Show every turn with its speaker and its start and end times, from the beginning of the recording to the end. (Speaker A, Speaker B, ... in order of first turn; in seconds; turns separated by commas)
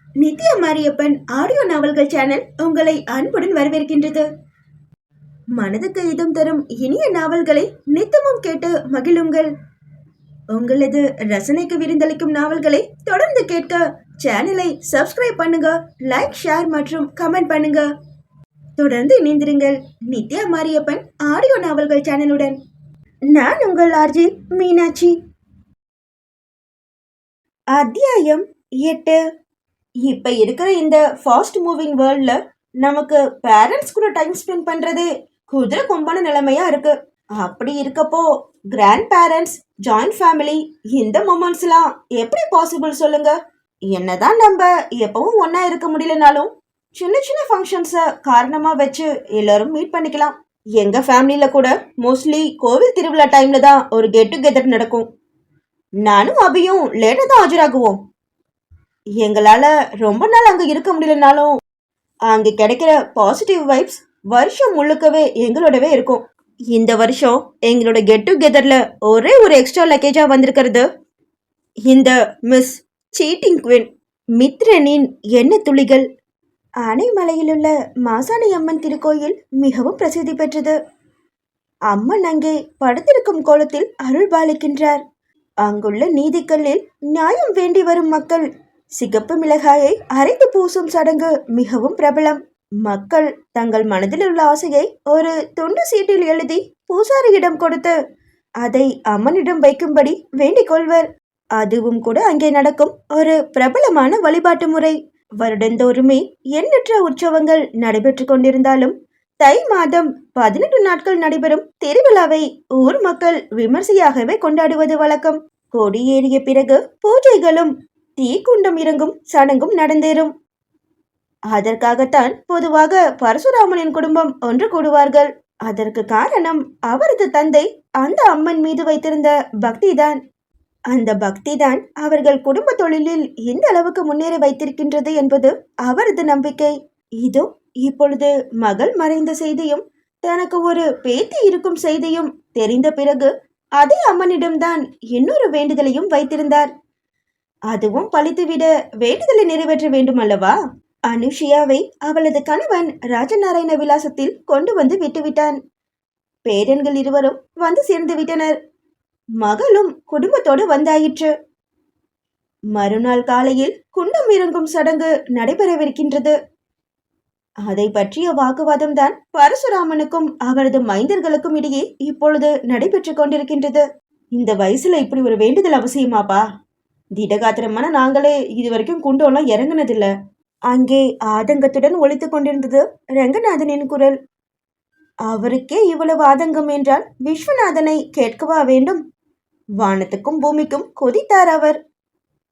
Speaker A: 0.2-4.3, Speaker A: 5.5-9.5, Speaker A: 10.5-17.9, Speaker A: 18.8-22.6, Speaker A: 23.3-25.1, Speaker A: 27.7-29.2, Speaker A: 30.0-43.4, Speaker A: 43.9-55.0, Speaker A: 56.0-58.0, Speaker A: 59.2-61.5, Speaker A: 62.3-70.9, Speaker A: 71.9-76.0, Speaker A: 76.8-80.8, Speaker A: 81.9-85.0, Speaker A: 85.6-97.9, Speaker A: 98.6-120.3, Speaker A: 121.5-130.2, Speaker A: 130.9-146.7, Speaker A: 147.7-150.6, Speaker A: 151.1-155.6, Speaker A: 156.4-158.6, Speaker A: 159.4-161.3, Speaker A: 162.7-166.3, Speaker A: 167.7-176.4, Speaker A: 177.1-180.1, Speaker A: 180.7-184.2, Speaker A: 185.3-189.0, Speaker A: 189.8-191.8